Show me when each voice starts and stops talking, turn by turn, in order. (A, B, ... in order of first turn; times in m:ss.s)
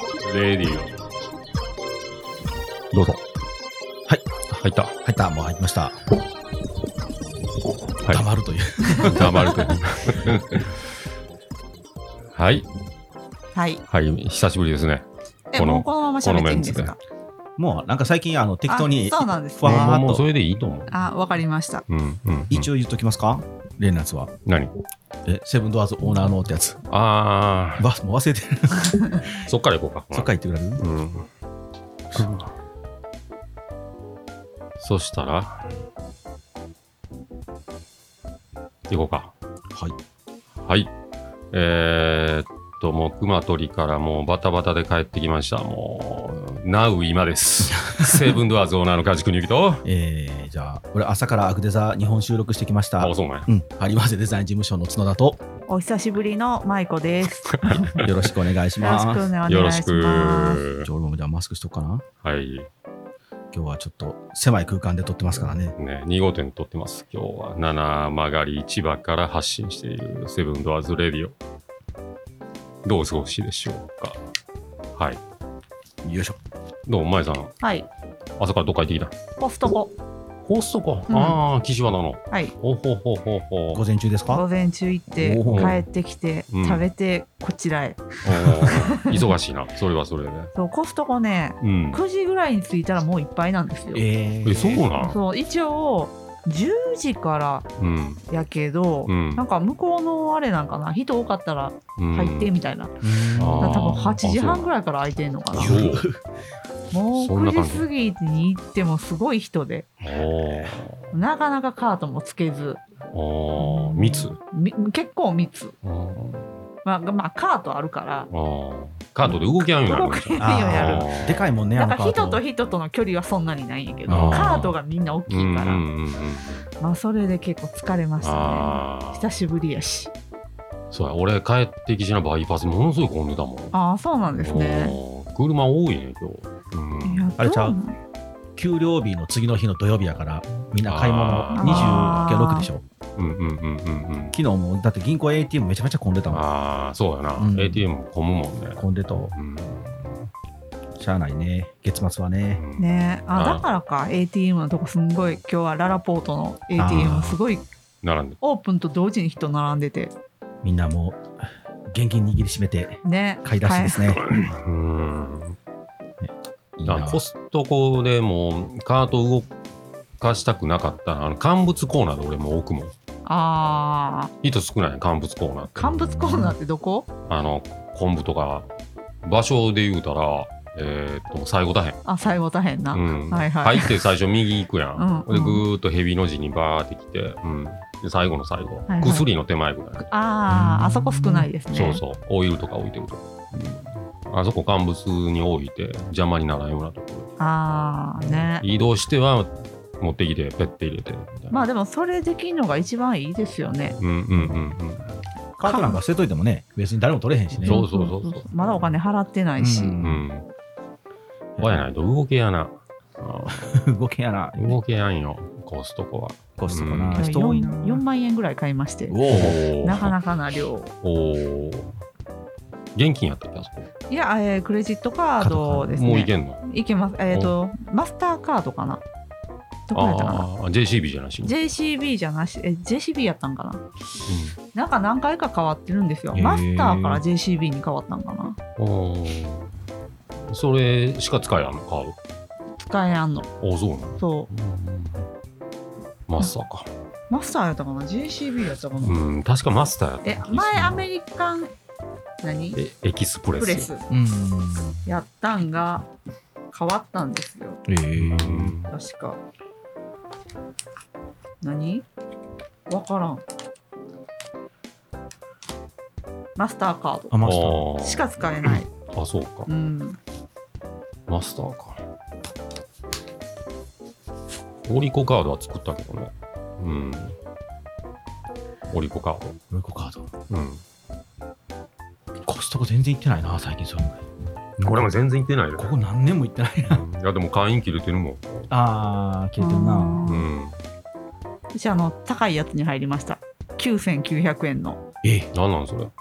0:00.2-0:01.0 A
0:02.9-0:03.2 A
0:04.5-0:05.0 A
0:05.0-0:06.0 B
0:08.0-0:09.8 B
0:09.0-0:10.8 A
0:12.3-0:12.7 A
0:13.6-0:13.8 C
0:13.9-0:17.0 A
0:15.5-0:17.0 C
0:17.6-0:20.3 B
0:18.7-0:20.0 C
0:19.6-0:21.0 A
0:20.9-0:21.8 C
0:21.9-0:22.7 A
0:22.5-0:24.3 B
0:24.4-0:24.7 A
0:25.2-0:26.8 B
0:26.9-0:27.9 A
0:27.8-0:29.5 B
0:29.5-0:31.3 A
0:30.1-0:30.8 B
0:32.1-0:32.5 A
0:34.8-0:35.7 A
0:38.9-0:39.3 A
0:40.6-0:40.9 A
0:41.5-0:49.8 A
0:47.7-0:48.4 B
0:49.8-0:55.4 B
0:53.0-0:53.5 A
0:55.7-0:58.0 C
0:57.5-0:58.1 A
0:58.0-0:59.3 B
0:58.8-1:00.6 C
0:59.5-1:00.9 A
1:00.8-1:02.0 B
1:02.2-1:02.7 A
1:03.5-1:05.8 B
1:05.8-1:11.4 A
1:12.8-1:14.2 A
1:15.0-1:15.2 A
1:16.0-1:16.4 B
1:16.9-1:17.6 A
1:17.6-1:17.9 C
1:18.4-1:19.2 A
1:19.4-1:19.9 C
1:20.4-1:23.8 A
1:21.1-1:21.4 C
1:23.7-1:24.4 B
1:24.3-1:29.3 C
1:25.1-1:25.8 B
1:25.5-1:25.8 A
1:26.5-1:26.8 A
1:28.2-1:30.5 A
1:30.6-1:34.0 C
1:31.6-1:32.0 A
1:33.9-1:34.9 B
1:34.4-1:35.2 A
1:35.0-1:37.7 C
1:37.8-1:38.3 A
1:38.3-1:43.0 C
1:39.1-1:39.4 A
1:42.0-1:42.5 A
1:43.0-1:44.2 B
1:43.4-1:44.7 A
1:43.6-1:45.8 C
1:45.5-1:46.1 A
1:45.5-1:46.2 B
1:46.9-1:49.9 C
1:47.1-1:47.9 A
1:50.0-1:51.2 A
1:51.1-1:52.8 C
1:53.1-1:54.4 A
1:53.6-1:55.8 C
1:55.8-1:56.5 A
1:56.8-1:58.3 C
1:58.3-2:01.5 A
1:59.2-2:01.1 C
2:00.4-2:02.4 B
2:01.7-2:05.8 C
2:04.1-2:04.7 B
2:04.1-2:04.8 A
2:05.3-2:06.7 A
2:06.8-2:10.1 C
2:08.2-2:09.3 A
2:10.9-2:13.8 A
2:13.7-2:15.0 C
2:14.4-2:17.4 A
2:17.0-2:18.0 C
2:17.4-2:17.8 B
2:18.6-2:22.8 B
2:20.8-2:22.2 A
2:21.6-2:22.7 C
2:23.2-2:24.3 A
2:24.3-2:26.4 B
2:26.3-2:30.2 A
2:27.4-2:27.9 B
2:28.8-2:29.3 B
2:31.0-2:32.6 B
2:32.6-2:33.7 A
2:32.8-2:37.6 C
2:36.8-2:37.4 B
2:38.0-2:38.4 A
2:38.4-2:40.1 C
2:40.6-2:44.2 B
2:43.0-2:44.2 C
2:44.3-2:45.6 A
2:46.2-2:47.2 B
2:46.9-2:49.5 A
2:50.2-2:52.9 A
2:53.3-2:54.3 C
2:54.4-2:56.0 A
2:55.8-2:57.1 C
2:57.3-2:58.7 A
2:59.2-3:02.0 A
3:02.0-3:04.1 C
3:02.9-3:10.1 A
3:05.0-3:05.6 C
3:08.9-3:09.3 C
3:10.0-3:12.0 C
3:10.5-3:11.5 B
3:11.7-3:17.3 A
3:17.4-3:18.7 C
3:18.6-3:21.6 A
3:21.5-3:24.0 C
3:24.0-3:25.2 A
3:25.6-3:27.8 B
3:25.6-3:26.0 C
3:27.6-3:28.7 A
3:27.6-3:30.0 C
3:29.6-3:30.3 B
3:30.0-3:30.5 A
3:31.6-3:31.9 B
3:31.6-3:33.9 A
3:33.5-3:34.8 B
3:34.6-3:37.3 A
3:36.6-3:38.0 B
3:37.2-3:40.9 C
3:39.1-3:40.0 B
3:39.3-3:40.2 A
3:41.0-3:42.0 A
3:43.0-3:43.9 A
3:44.1-3:49.0 C
3:45.4-3:45.8 B
3:45.5-3:46.6 A
3:49.9-3:50.5 C
3:49.9-3:51.6 A
3:51.4-3:53.8 C
3:54.3-3:54.6 A
3:54.7-3:58.6 C
3:56.3-3:57.2 B
3:58.8-3:59.7 A
4:00.5-4:02.2 A
4:02.8-4:03.5 C
4:03.6-4:05.3 A
4:04.2-4:04.5 C
4:06.3-4:06.9 A
4:07.3-4:09.2 C
4:09.0-4:11.0 A
4:10.2-4:11.7 C
4:12.4-4:12.8 C
4:12.8-4:13.9 A
4:13.6-4:14.0 C
4:14.1-4:15.0 B
4:15.1-4:16.1 C
4:16.7-4:17.8 C
4:17.9-4:18.8 B
4:18.2-4:18.9 A
4:18.9-4:19.4 C
4:21.6-4:22.0 C
4:22.9-4:23.4 C
4:26.6-4:27.4 C
4:27.3-4:27.9 B
4:27.4-4:29.7 A
4:28.0-4:28.9 C
4:29.7-4:30.2 C
4:31.3-4:32.0 A
4:34.8-4:37.4 A
4:38.9-4:39.6 A
4:39.7-4:40.3 B
4:40.5-4:40.8 A
4:42.5-4:44.2 B
4:44.8-4:45.1 B
4:44.8-4:45.9 A
4:45.8-4:47.0 B
4:46.9-4:48.7 A
4:48.7-4:50.2 B
4:49.6-4:50.5 C
4:50.2-4:50.8 A
4:51.7-4:55.0 C
4:55.2-4:55.5 B
4:55.5-4:56.1 A